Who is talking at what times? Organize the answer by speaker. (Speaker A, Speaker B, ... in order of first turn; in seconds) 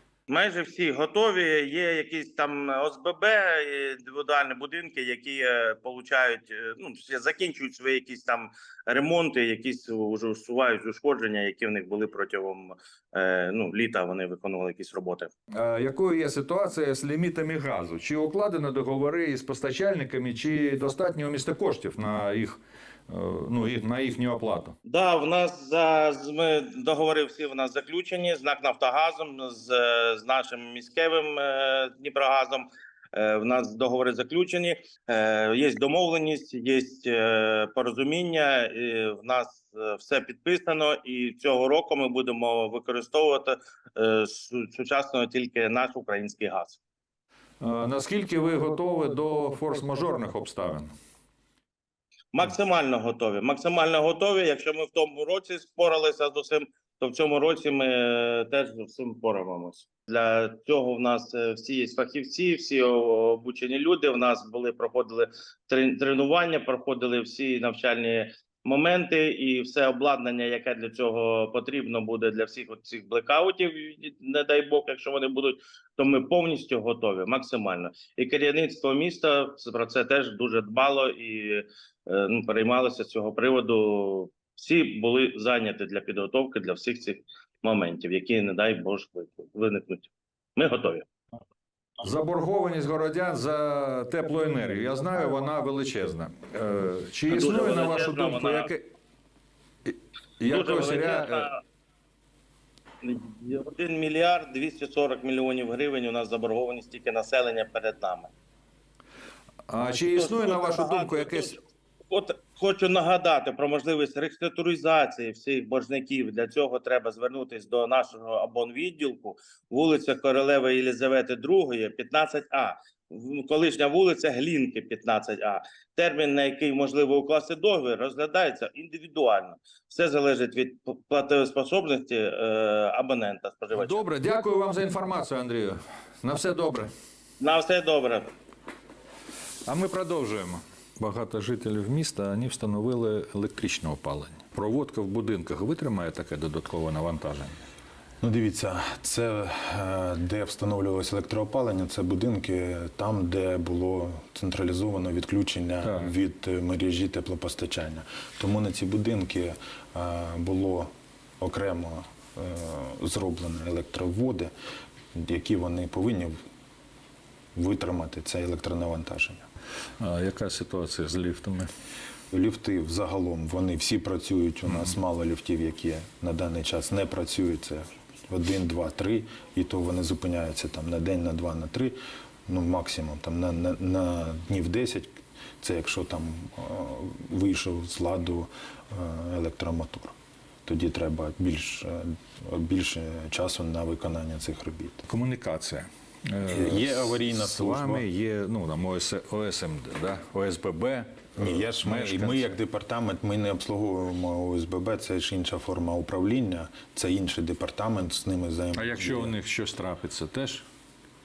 Speaker A: 0.3-15.3, 24.9-46.8, 52.3-91.0, 97.3-98.7, 100.5-101.6, 103.0-108.3, 109.8-111.5, 112.1-134.1, 137.4-138.3
Speaker B: 15.5-24.8, 47.6-50.9, 92.0-98.9, 99.9-101.5, 109.7-111.6, 133.7-136.9, 139.7-147.6, 155.8-156.1, 170.0-171.7, 195.1-202.6, 208.7-210.6
Speaker C: 148.2-164.5, 165.1-166.4, 167.6-169.4, 172.3-190.2, 190.7-195.0, 196.5-198.1, 201.4-209.4